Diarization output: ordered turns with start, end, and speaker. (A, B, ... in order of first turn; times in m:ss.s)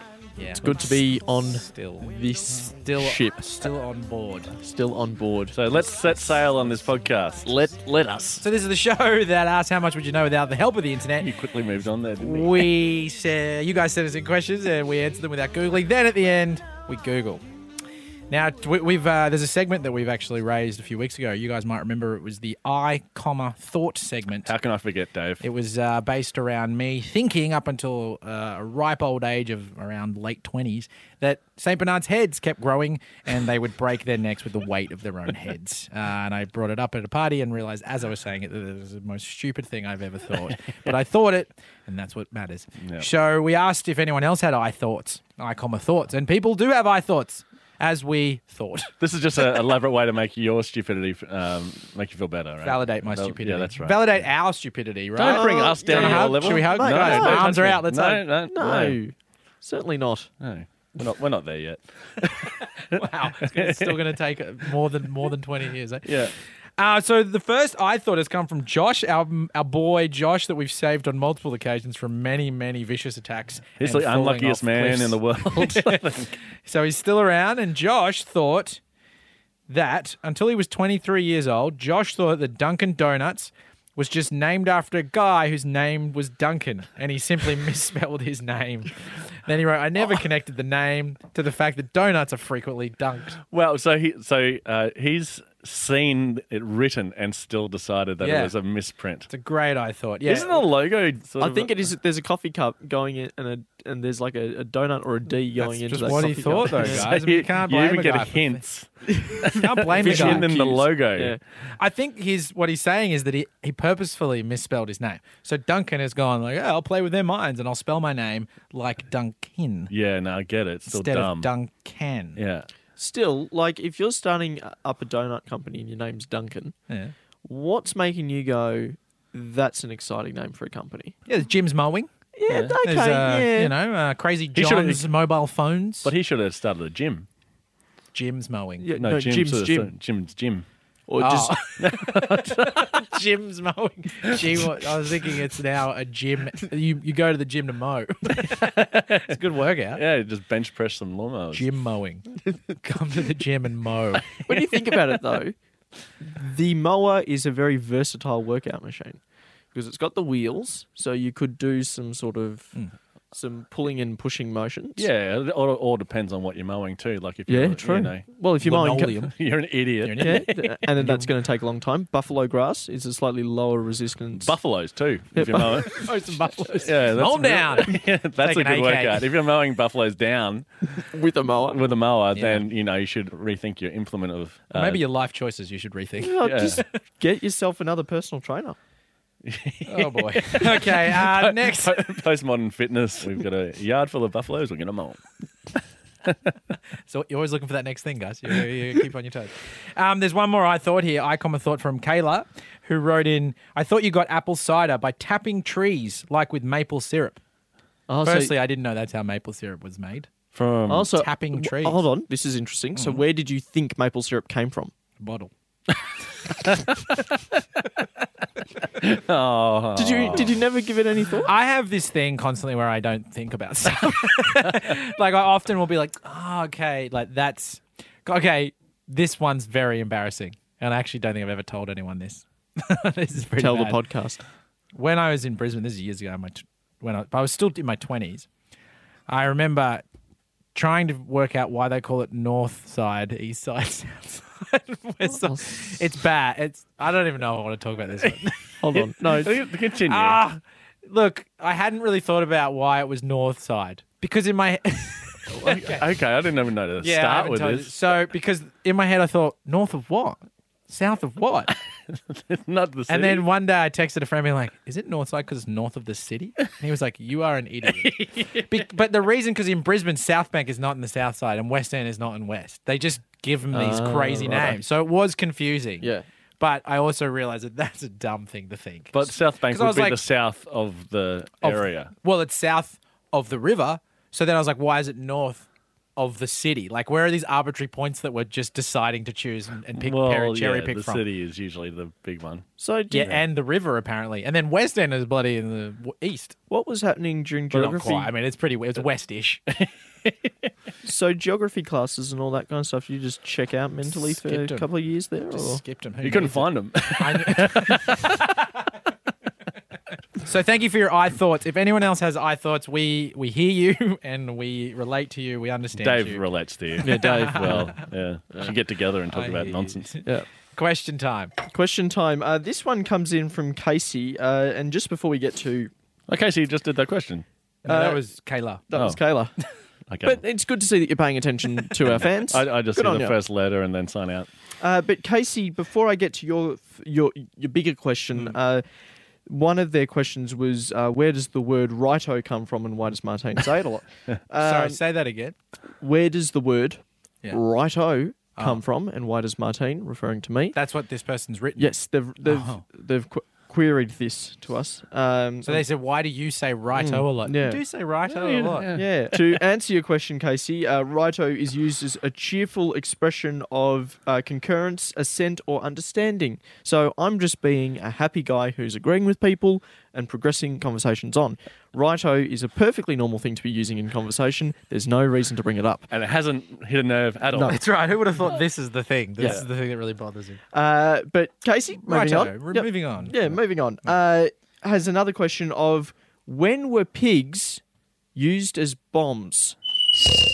0:00.4-0:04.6 A
0:00.6-0:03.7 B
0:04.6-0:05.7 B
0:05.5-0:08.4 C
0:08.4-0:11.3 A
0:11.2-0:12.7 C
0:12.2-0:17.4 A
0:18.3-0:24.5 A
0:24.4-0:25.4 C
0:25.4-0:48.9 A
0:42.8-0:43.1 C
0:49.0-0:54.2 C
0:52.6-0:58.2 A
0:55.1-0:59.0 C
0:55.2-0:57.6 B
0:58.5-1:00.3 B
1:00.4-1:04.2 C
1:02.8-1:18.8 A
1:06.0-1:06.3 C
1:13.8-1:16.4 C
1:19.7-1:33.4 A
1:33.4-1:39.3 C
1:38.2-1:38.5 A
1:39.3-1:40.6 A
1:40.2-1:41.9 C
1:41.4-1:47.1 B
1:45.6-1:48.6 A
1:46.3-1:51.4 C
1:49.2-1:51.4 B
1:49.4-1:50.5 A
1:51.7-1:59.9 A
1:59.9-2:01.5 C
2:00.9-2:02.4 A
2:02.4-2:02.7 C
2:03.0-2:06.8 B
2:07.4-2:11.2 B
2:11.3-2:12.1 A
2:12.4-2:13.7 B
2:12.5-2:12.8 C
2:12.8-2:16.1 A
2:14.5-2:15.1 C
2:16.0-2:17.3 C
2:18.1-2:18.9 A
2:18.8-2:19.9 B
2:18.9-2:20.7 C
2:21.1-2:21.6 B
2:21.2-2:30.0 A
2:21.8-2:23.0 C
2:24.2-2:24.7 C
2:28.4-2:29.4 C
2:29.9-2:31.7 C
2:31.5-2:34.4 A
2:34.5-2:35.6 B
2:36.2-2:39.2 B
2:39.7-2:42.8 B
2:43.3-2:45.1 B
2:45.0-2:48.2 C
2:47.5-2:49.3 B
2:48.6-2:49.3 A
2:49.3-2:50.8 C
2:50.0-2:51.3 A
2:50.2-2:54.6 B
2:54.4-3:01.1 C
2:55.3-2:56.1 B
2:55.7-2:59.3 A
3:01.1-3:01.8 B
3:01.6-3:05.0 C
3:02.3-3:02.6 A
3:04.7-3:06.8 A
3:06.2-3:08.8 B
3:06.4-3:06.8 C
3:09.4-3:15.2 C
3:09.9-3:12.2 A
3:16.2-3:16.5 C
3:17.1-3:27.4 A
3:28.1-3:28.6 B
3:28.2-3:30.3 A
3:30.5-3:31.3 C
3:30.9-3:34.9 B
3:31.1-3:32.1 A
3:35.2-3:35.5 A
3:36.6-3:37.2 C
3:38.9-3:40.6 C
3:40.0-3:41.5 B
3:41.4-3:54.0 A
3:53.6-3:54.4 B
3:55.0-3:58.5 A
3:59.3-4:00.0 A
4:00.8-4:08.8 A
4:05.2-4:05.9 B
4:08.8-4:09.6 B
4:08.9-4:10.4 C
4:10.1-4:16.0 A
4:15.5-4:17.9 C
4:17.0-4:21.7 A
4:22.1-4:23.5 C
4:23.1-4:40.2 A
4:28.0-4:28.8 C
4:33.7-4:34.8 B
4:39.1-4:42.1 C
4:41.6-4:51.2 A
4:50.0-4:52.7 C
4:52.8-4:53.4 B
4:53.1-4:56.6 A
4:56.7-4:58.3 B
4:57.7-5:00.3 A
5:01.0-5:05.8 B
5:04.1-5:04.9 A
5:05.5-5:08.9 A
5:06.2-5:08.4 C
5:10.4-5:16.4 A
5:16.0-5:20.1 C
5:17.0-5:18.0 B
5:17.0-5:18.0 A
5:19.3-5:21.5 A
5:21.7-5:25.9 B
5:26.3-5:27.4 C
5:27.8-5:28.8 A
5:27.9-5:28.2 B
5:28.9-5:29.6 B
5:28.9-5:29.2 C
5:30.1-5:30.4 C
5:30.2-5:33.4 B
5:32.0-5:34.5 C
5:34.8-5:38.8 B
5:39.5-5:45.0 B
5:44.6-5:45.6 A
5:46.0-5:50.8 B
5:48.6-5:48.8 A
5:50.7-5:51.9 A
5:51.8-5:55.8 B
5:52.4-5:52.8 A
5:55.7-5:59.0 A
5:57.0-5:57.8 B
5:58.3-5:59.6 C
5:58.9-6:16.1 B
6:16.1-6:17.8 C
6:17.5-6:20.6 A
6:20.7-6:27.8 B
6:22.1-6:23.6 A
6:28.4-6:30.3 B